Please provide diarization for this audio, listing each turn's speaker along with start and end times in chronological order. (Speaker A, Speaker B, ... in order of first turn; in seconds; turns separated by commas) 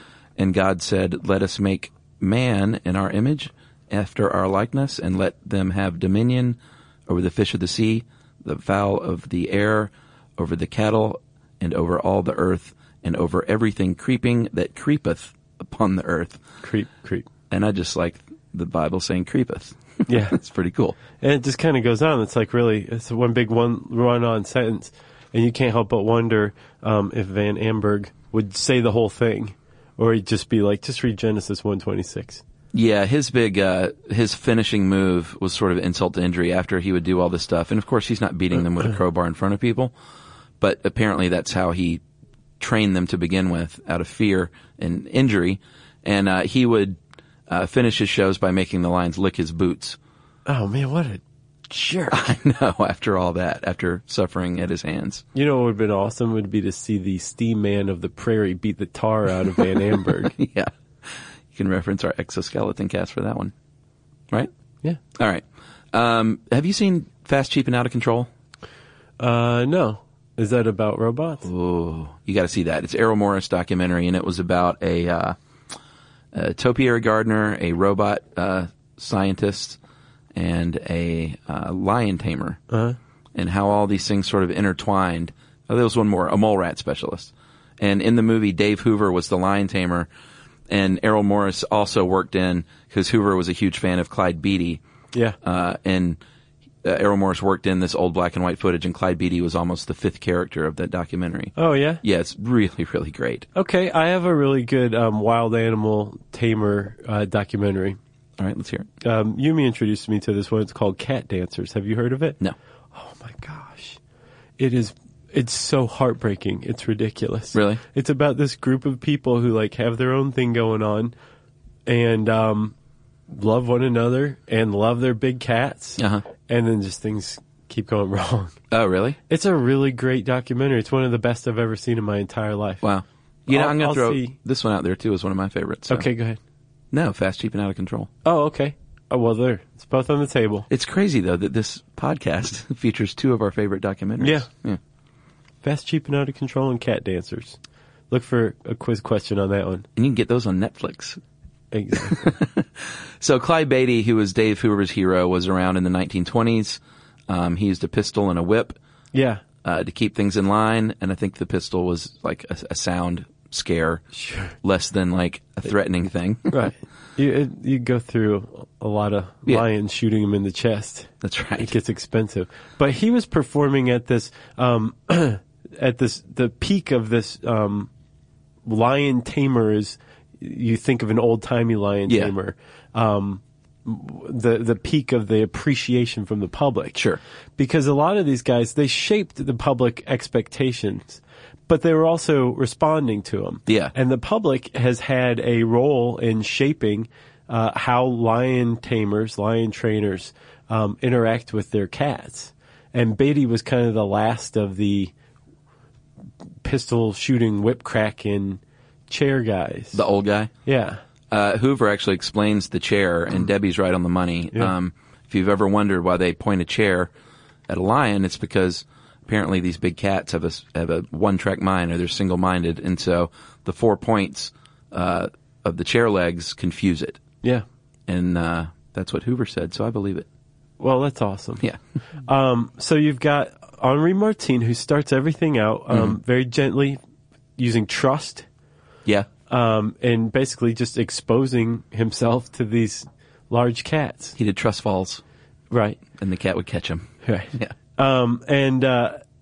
Speaker A: 0.4-16.4, Speaker B: 16.6-17.2, Speaker A: 17.5-21.0, Speaker B: 20.1-20.4, Speaker B: 21.2-32.4, Speaker A: 32.7-39.9, Speaker A: 40.6-42.0, Speaker A: 42.6-50.0, Speaker B: 50.5-52.3, Speaker A: 52.1-55.2, Speaker B: 55.3-60.3, Speaker A: 60.0-63.5, Speaker A: 65.1-68.3, Speaker B: 69.2-71.5, Speaker A: 71.4-75.3, Speaker A: 76.3-79.8, Speaker A: 80.3-82.6, Speaker B: 82.7-83.0, Speaker A: 83.3-90.1, Speaker A: 90.7-94.8, Speaker A: 95.4-96.2, Speaker A: 96.8-103.5, Speaker B: 101.6-102.0, Speaker B: 103.5-108.0, Speaker A: 108.4-108.9, Speaker B: 109.0-112.4, Speaker B: 112.9-114.0, Speaker B: 114.6-121.1, Speaker A: 117.5-117.8, Speaker B: 121.8-122.7, Speaker B: 123.3-128.6, Speaker A: 126.0-126.2, Speaker A: 128.7-129.2, Speaker B: 129.3-132.8, Speaker A: 132.8-136.1, Speaker B: 133.5-134.3, Speaker B: 135.9-136.4, Speaker A: 136.9-138.1, Speaker B: 138.2-140.7, Speaker A: 140.7-144.8, Speaker B: 144.2-144.5, Speaker B: 145.6-147.6, Speaker B: 148.1-149.8, Speaker A: 149.9-151.2, Speaker B: 151.7-152.3, Speaker A: 152.0-158.8, Speaker B: 159.1-159.4, Speaker A: 159.6-164.1, Speaker B: 164.2-164.5, Speaker A: 164.6-166.5, Speaker B: 166.5-177.9, Speaker A: 171.2-171.7, Speaker B: 178.7-187.0, Speaker A: 182.1-182.3, Speaker A: 186.9-187.2, Speaker B: 187.6-205.1, Speaker A: 193.7-193.9, Speaker B: 206.6-210.0, Speaker A: 209.9-210.5, Speaker B: 210.7-211.0, Speaker A: 211.3-217.1, Speaker A: 217.7-227.2, Speaker A: 228.1-230.2, Speaker B: 230.8-231.6, Speaker B: 232.2-237.0, Speaker B: 237.6-238.4, Speaker B: 239.5-244.3, Speaker A: 244.3-245.2, Speaker B: 245.7-246.0, Speaker A: 246.2-247.7, Speaker B: 247.2-249.2